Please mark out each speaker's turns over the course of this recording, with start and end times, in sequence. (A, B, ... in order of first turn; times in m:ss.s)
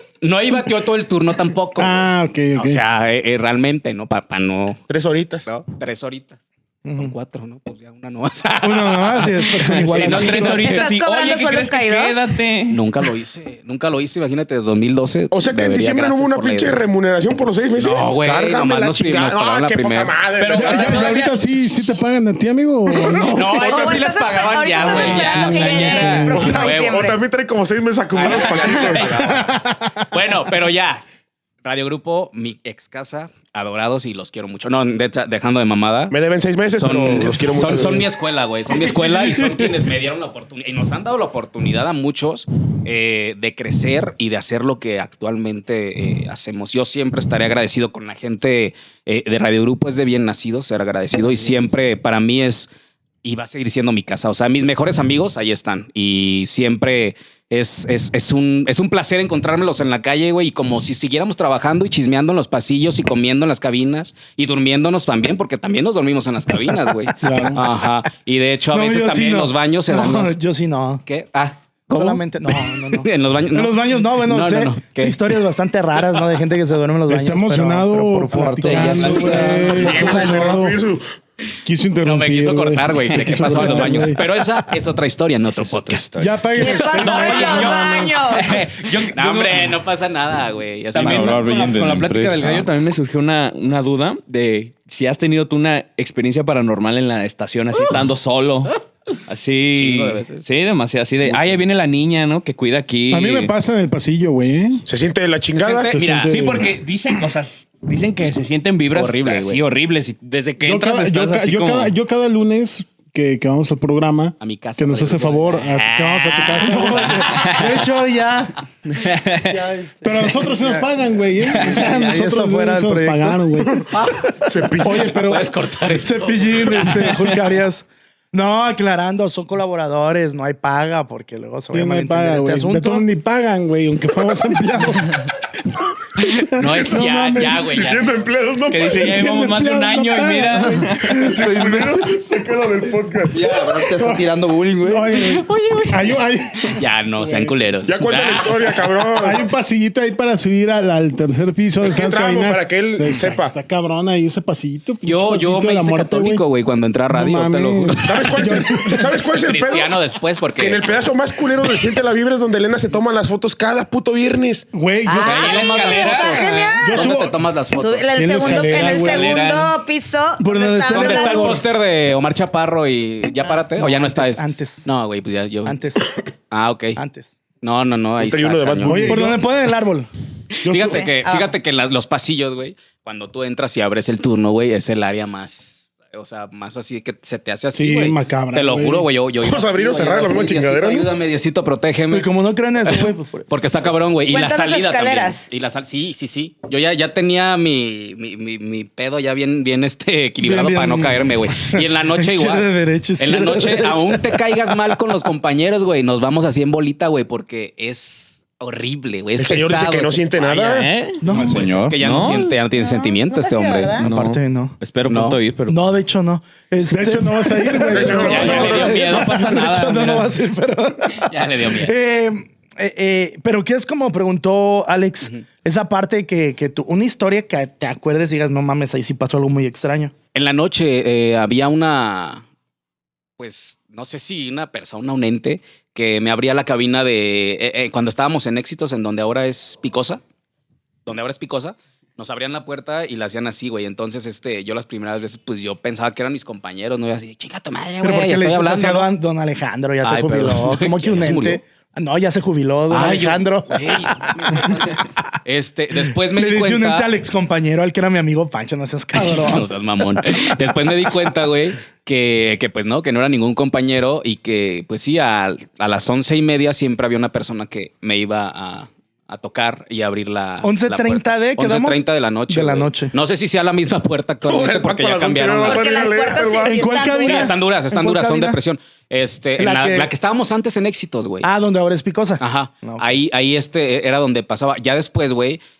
0:00.2-0:04.8 A
0:01.8-0:02.8 B
0:04.9-0:05.4 C
0:05.4-0:06.4 A
0:06.8-0:07.1 D
0:06.9-0:10.8 A
0:08.6-0:10.8 D
0:09.6-0:12.8 E
0:10.5-0:12.3 F
0:12.7-0:16.8 A
0:15.3-0:21.2 C
0:17.8-0:20.2 A
0:20.4-0:21.4 E
0:20.5-0:23.7 B
0:23.2-0:27.1 A
0:23.4-0:27.2 F
0:24.8-0:26.4 E
0:24.9-0:26.6 B
0:26.3-0:29.5 C
0:28.1-0:31.0 A
0:28.2-0:29.1 E
0:29.5-0:29.8 B
0:31.6-0:36.1 A
0:36.1-0:38.1 C
0:36.7-0:52.7 A
0:53.2-1:10.4 A
1:07.2-1:07.6 B
1:08.7-1:11.0 D
1:11.0-1:15.3 A
1:11.9-1:19.4 D
1:17.1-1:20.8 B
1:18.4-1:19.9 G
1:19.0-1:20.0 E
1:19.8-1:21.1 C
1:19.8-1:20.6 A
1:21.6-1:24.2 B
1:22.0-1:26.3 A
1:25.5-1:26.4 E
1:26.2-1:28.2 B
1:26.5-1:28.6 F
1:26.9-1:31.6 A
1:27.0-1:29.8 E
1:30.9-1:43.5 E
1:31.0-1:32.7 G
1:39.7-1:40.4 A
1:43.1-1:44.8 B
1:44.8-1:46.0 C
1:45.6-1:46.4 A
1:45.9-1:46.7 B
1:46.3-1:51.9 E
1:48.9-1:49.6 A
1:50.6-1:57.2 B
1:54.4-1:57.8 A
1:56.6-1:58.5 D
1:57.3-1:57.6 E
1:58.9-1:59.6 E
1:59.5-2:00.9 D
2:00.0-2:03.9 B
2:01.6-2:03.4 D
2:01.6-2:01.9 E
2:04.4-2:05.2 C
2:04.8-2:05.5 B
2:05.1-2:07.4 A
2:05.9-2:13.0 D
2:11.7-2:15.3 B
2:16.2-2:17.8 B
2:16.2-2:18.2 A
2:16.7-2:19.2 C
2:18.7-2:21.4 E
2:18.8-2:21.7 B
2:21.0-2:23.6 C
2:21.4-2:21.9 G
2:23.3-2:25.1 G
2:23.9-2:24.3 B
2:24.8-2:27.5 B
2:26.7-2:28.6 A
2:27.8-2:29.4 C
2:29.2-2:36.4 B
2:31.8-2:33.5 C
2:35.0-2:38.7 A
2:37.1-2:39.1 B
2:38.0-2:40.0 C
2:39.2-2:41.1 A
2:40.6-2:44.7 C
2:44.7-2:45.5 B
2:45.0-2:47.1 F
2:45.2-2:48.6 A
2:45.2-2:46.8 E
2:46.8-2:47.4 B
2:47.7-2:51.6 F
2:48.1-2:49.5 B
2:48.7-2:49.7 E
2:50.4-2:51.6 D
2:50.9-2:55.8 A
2:53.8-2:54.9 D
2:55.6-2:56.0 D
2:56.5-2:57.0 A
2:57.0-2:57.3 D
2:57.6-2:59.2 A
2:58.2-2:59.2 C
2:58.8-2:59.4 B
2:59.0-3:00.1 D
3:00.5-3:12.3 A
3:00.6-3:01.1 B
3:00.7-3:01.5 F
3:07.7-3:09.1 B
3:09.4-3:11.2 C
3:12.1-3:13.5 D
3:12.8-3:34.0 A
3:14.2-3:15.4 F
3:20.4-3:24.9 D
3:29.4-3:30.9 C
3:30.6-3:31.2 E
3:31.2-3:31.7 D
3:31.4-3:32.0 G
3:32.0-3:32.5 E
3:32.7-3:34.0 F
3:34.0-3:34.7 D
3:34.0-3:35.8 E
3:35.0-3:35.4 A
3:35.7-3:50.1 D
3:36.9-3:38.7 B
3:37.9-3:39.2 C
3:38.2-3:39.0 A
3:38.2-3:40.3 E
3:41.2-3:41.9 A
3:50.3-3:52.4 A
3:53.4-4:00.2 A
4:01.0-4:09.1 A
4:08.0-4:14.7 D
4:10.0-4:11.6 A
4:12.9-4:17.1 A
4:16.3-4:19.7 D
4:19.1-4:36.1 A
4:30.6-4:33.1 D
4:34.4-4:37.0 C
4:35.6-4:37.6 F
4:36.6-4:38.6 D
4:37.1-4:41.5 A
4:39.6-4:40.1 D
4:41.4-4:43.2 D
4:42.4-4:45.6 A